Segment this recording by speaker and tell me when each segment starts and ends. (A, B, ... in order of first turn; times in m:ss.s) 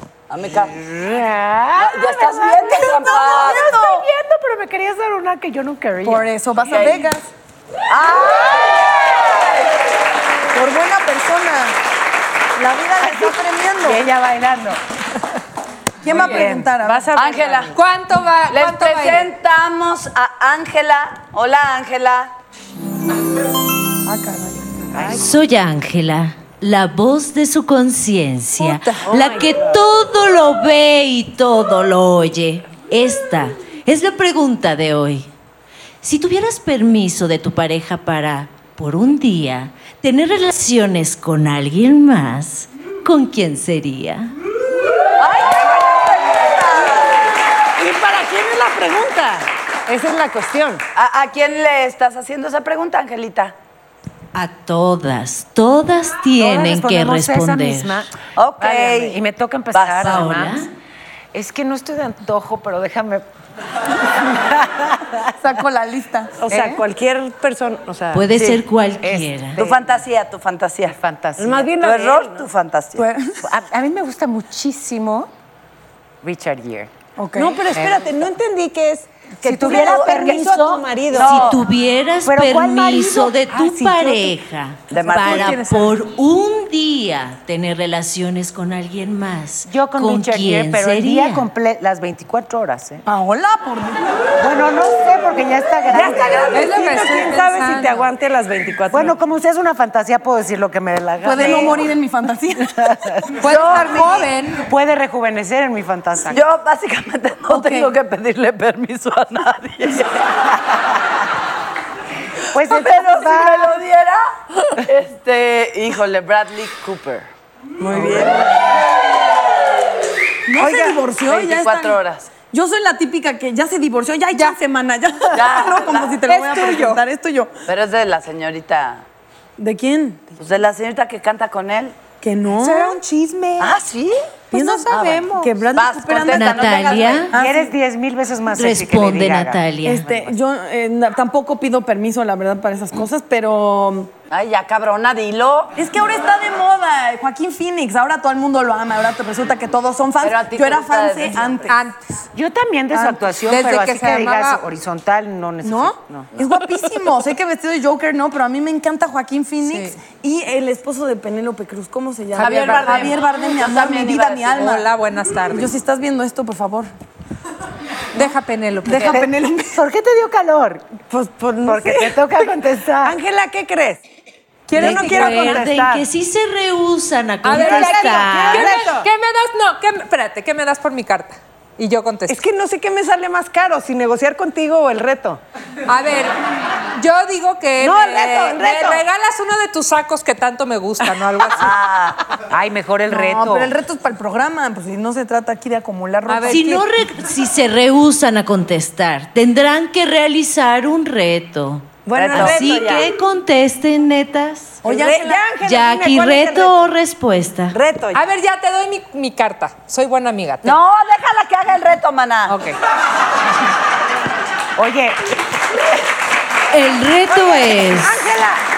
0:00.3-0:00.8 A
0:00.8-0:06.3 B
0:01.8-0:03.8 A
0:02.6-0:04.0 C
0:06.0-0:07.3 C
0:06.6-0:07.1 A
0:07.9-0:09.5 A
0:10.5-0:11.8 C
0:12.6-0:14.0 C
0:13.0-0:14.8 B
0:16.0-0:17.1 C
0:16.1-0:16.4 B
0:16.2-0:17.7 D
0:17.1-0:17.7 A
0:17.7-0:19.3 E
0:18.5-0:22.3 A
0:24.0-0:24.9 C
0:24.9-0:25.4 B
0:25.0-0:35.3 F
0:28.6-0:29.0 E
0:29.1-0:29.7 D
0:36.0-0:44.3 F
0:45.2-0:47.2 A
0:47.8-0:50.8 D
0:50.9-0:53.5 A
0:54.3-0:58.0 F
0:56.4-1:00.7 B
0:58.4-0:59.2 A
0:59.7-1:00.2 A
1:00.0-1:00.7 F
1:01.3-1:03.2 B
1:04.2-1:05.1 B
1:05.3-1:06.3 C
1:06.4-1:08.3 D
1:06.5-1:06.8 B
1:08.1-1:09.6 F
1:09.0-1:09.9 B
1:09.6-1:11.0 A
1:11.0-1:11.8 B
1:11.4-1:12.4 D
1:11.7-1:13.1 A
1:13.0-1:13.4 C
1:13.4-1:15.3 B
1:16.2-1:16.9 B
1:17.2-1:17.6 C
1:17.4-1:21.4 D
1:17.7-1:18.0 B
1:19.4-1:20.9 B
1:19.6-1:20.4 A
1:21.1-1:21.6 A
1:21.2-1:31.5 F
1:22.2-1:24.3 B
1:24.9-1:25.7 A
1:25.1-1:25.7 C
1:29.6-1:33.0 B
1:33.0-1:34.1 C
1:34.4-1:36.7 B
1:35.9-1:39.1 D
1:36.5-1:38.1 E
1:38.9-1:41.9 B
1:41.2-1:43.1 C
1:43.4-1:44.6 E
1:43.4-1:44.2 A
1:44.6-1:46.4 B
1:46.3-1:50.3 A
1:47.5-1:47.9 C
1:52.5-1:53.8 B
1:52.6-1:57.3 A
1:57.8-1:58.5 D
2:00.5-2:07.5 C
2:00.6-2:01.0 D
2:01.2-2:02.3 A
2:05.3-2:06.2 A
2:06.3-2:07.0 E
2:07.7-2:09.0 A
2:09.6-2:10.2 C
2:10.4-2:12.0 A
2:12.2-2:13.0 C
2:12.6-2:13.8 D
2:13.6-2:14.2 A
2:14.5-2:17.7 C
2:14.5-2:14.9 E
2:15.0-2:17.3 A
2:16.2-2:17.3 F
2:17.3-2:20.4 B
2:18.5-2:20.1 F
2:19.8-2:24.1 C
2:24.3-2:25.7 A
2:25.8-2:31.8 C
2:30.2-2:31.7 A
2:31.7-2:32.0 E
2:32.3-2:36.3 B
2:32.9-2:33.2 C
2:33.5-2:34.6 E
2:35.6-2:44.9 C
2:39.6-2:40.0 E
2:42.3-2:44.7 A
2:42.4-2:43.1 E
2:44.6-2:45.7 E
2:45.4-2:46.9 C
2:48.1-2:49.3 E
2:48.8-2:49.8 C
2:49.1-2:51.0 B
2:51.1-2:52.4 D
2:51.6-2:53.2 B
2:53.0-2:54.0 D
2:54.7-2:55.6 E
2:54.7-2:56.0 D
2:54.8-2:58.8 F
2:57.4-3:02.4 E
2:57.5-2:59.1 D
3:02.3-3:05.4 D
3:05.9-3:06.4 E
3:06.9-3:11.8 E
3:07.8-3:09.0 D
3:11.5-3:12.2 A
3:12.5-3:13.7 B
3:13.1-3:16.9 C
3:16.3-3:16.6 E
3:16.5-3:24.8 F
3:22.1-3:23.1 A
3:22.2-3:22.9 C
3:24.8-3:25.4 C
3:24.8-3:26.8 D
3:25.6-3:27.8 F
3:27.7-3:28.2 D
3:28.1-3:30.8 E
3:30.6-3:32.6 A
3:32.5-3:32.8 E
3:34.8-3:35.3 B
3:36.7-3:38.2 F
3:37.3-3:38.6 D